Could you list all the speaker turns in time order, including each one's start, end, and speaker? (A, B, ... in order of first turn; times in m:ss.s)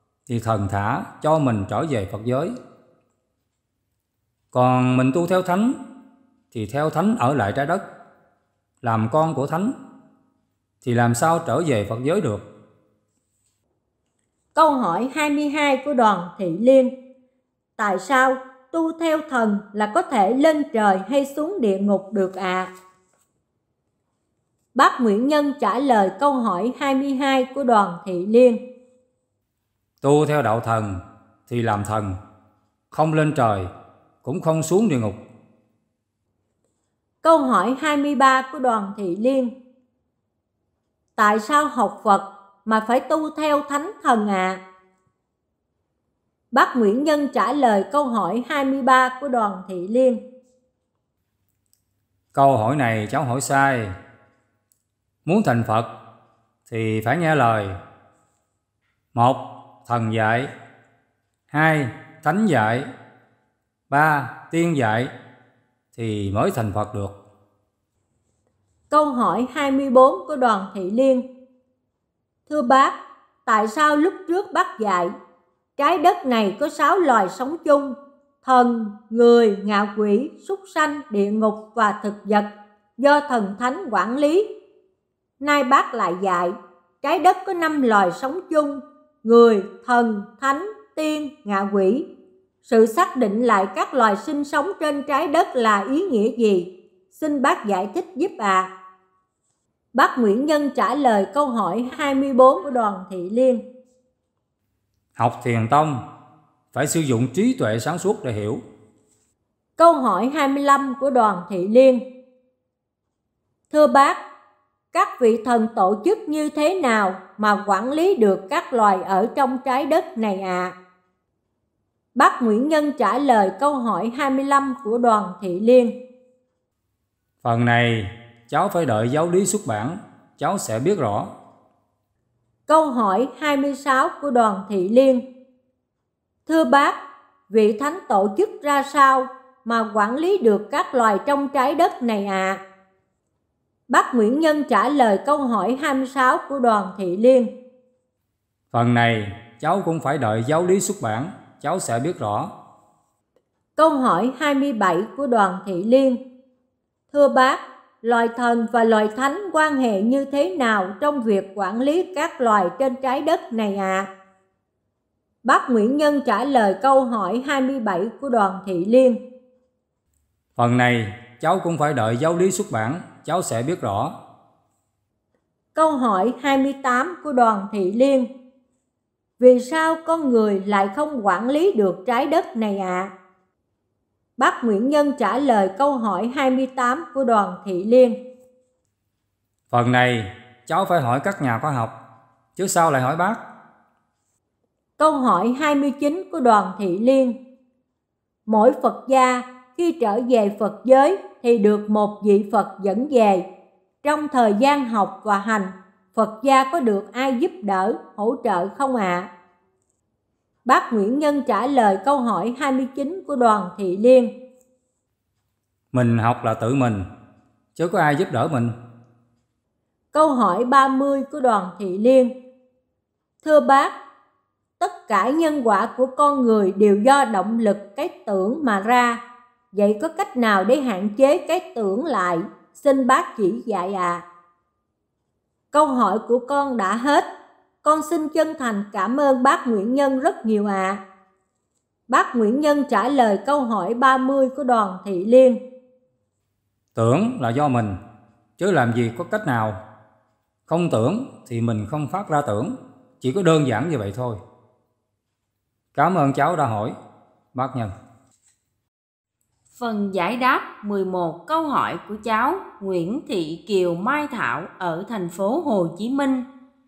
0:00.3-0:02.6 A
0:04.5-0:05.8 A
0:06.5-0:07.8 A
0:08.8-0:09.8 A
0:10.8-0:12.4 A
0:14.5-0:16.9 B
0:17.8-0:22.7 B
0:24.7-0:28.6 B
0:30.0-0:32.2 A
0:32.9-0:33.7 A
0:34.2-0:35.2 A
0:37.2-0:39.5 B
0:41.2-0:44.6 B
0:46.5-0:50.2 B
0:52.3-0:54.0 A
0:55.2-0:55.9 A
0:56.7-0:57.8 A
0:59.1-1:00.5 A
1:01.5-1:02.9 A
1:03.9-1:05.1 A
1:05.9-1:07.2 A
1:08.9-1:11.2 B
1:12.5-1:12.9 B
1:13.4-1:15.2 B
1:15.8-1:24.5 B
1:25.4-1:32.0 B
1:32.6-1:38.7 B
1:39.9-1:43.6 B
1:45.2-1:46.0 A
1:46.7-1:48.6 A
1:49.8-1:52.0 B
1:53.7-1:54.2 B
1:54.9-2:00.7 B
2:02.1-2:05.9 B
2:07.4-2:11.3 A
2:12.7-2:15.2 B
2:16.4-2:17.0 B
2:17.5-2:22.6 B
2:23.9-2:27.5 B
2:28.7-2:32.5 A
2:33.8-2:36.2 B
2:37.1-2:44.1 B
2:45.4-2:49.2 B
2:50.6-2:54.1 A
2:55.7-2:58.3 B
2:59.4-3:03.1 B
3:04.4-3:08.2 B
3:09.7-3:11.9 A
3:12.6-3:13.4 A
3:15.0-3:17.4 B
3:18.4-3:23.4 B
3:24.0-3:29.3 B
3:30.6-3:34.3 B
3:35.9-3:37.1 A
3:37.7-3:38.8 A
3:40.1-3:42.3 B
3:43.4-3:43.9 B
3:44.8-3:49.2 B
3:49.7-3:54.2 B
3:55.7-3:57.2 B
3:57.8-4:01.0 B
4:02.1-4:05.6 B
4:06.9-4:08.0 A
4:08.6-4:09.8 A
4:10.7-4:14.4 A
4:15.9-4:17.0 A
4:17.5-4:17.9 A
4:19.7-4:26.4 C